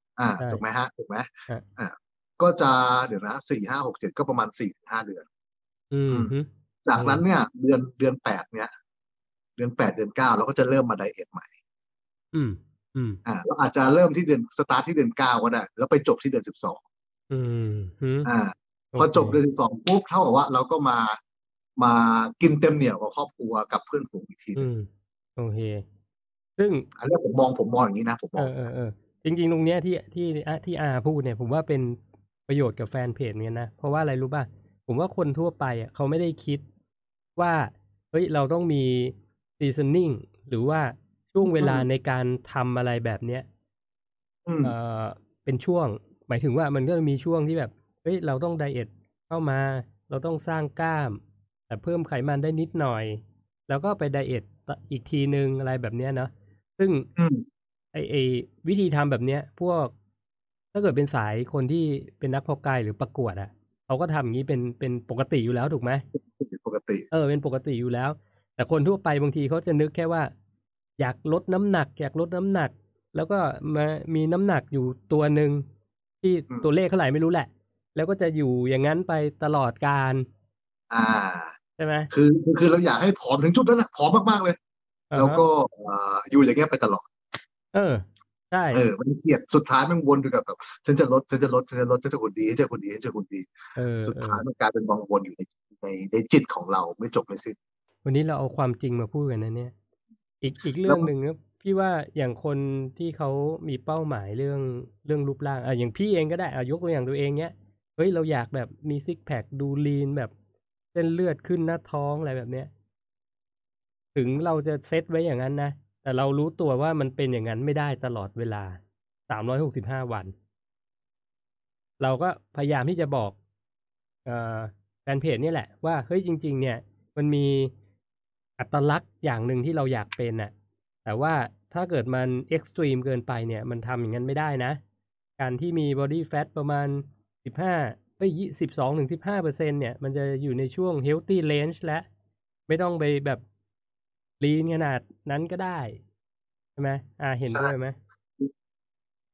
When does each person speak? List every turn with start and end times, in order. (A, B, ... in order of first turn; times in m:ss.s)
0:00.2-0:05.2 A
0:05.9-0:07.2 B
0:06.8-0:08.7 A
0:09.6-0:11.5 A
0:12.3-0:13.2 B
0:13.2-0:16.8 A
0:17.3-0:18.3 B
0:18.2-0:21.2 A
0:18.9-0:19.4 B
0:21.8-0:24.7 A
0:24.6-0:25.8 B
0:26.6-0:26.9 B
0:27.0-0:28.6 A
0:28.4-0:36.6 B
0:37.4-0:43.4 B
0:41.4-0:41.8 A
0:44.4-0:44.7 A
0:44.6-0:57.1 B
0:57.2-0:57.4 A
0:57.9-0:59.9 B
1:00.7-1:06.0 B
1:06.1-1:07.1 A
1:07.1-1:10.3 B
1:11.0-1:15.6 B
1:16.2-1:20.2 B
1:20.9-1:21.5 A
1:21.8-1:22.1 B
1:22.1-1:24.6 A
1:25.1-1:25.4 B
1:25.2-1:27.1 A
1:27.7-1:28.8 B
1:28.7-1:33.5 A
1:33.8-1:34.4 B
1:34.0-1:37.6 A
1:38.0-1:39.7 B
1:40.4-1:50.3 B
1:50.9-1:52.7 B
1:54.1-2:00.3 B
2:02.0-2:03.3 B
2:04.2-2:07.7 B
2:08.6-2:10.5 B
2:11.0-2:14.8 B
2:15.4-2:22.0 B
2:22.7-2:23.4 B
2:24.4-2:26.0 B
2:26.8-2:28.0 B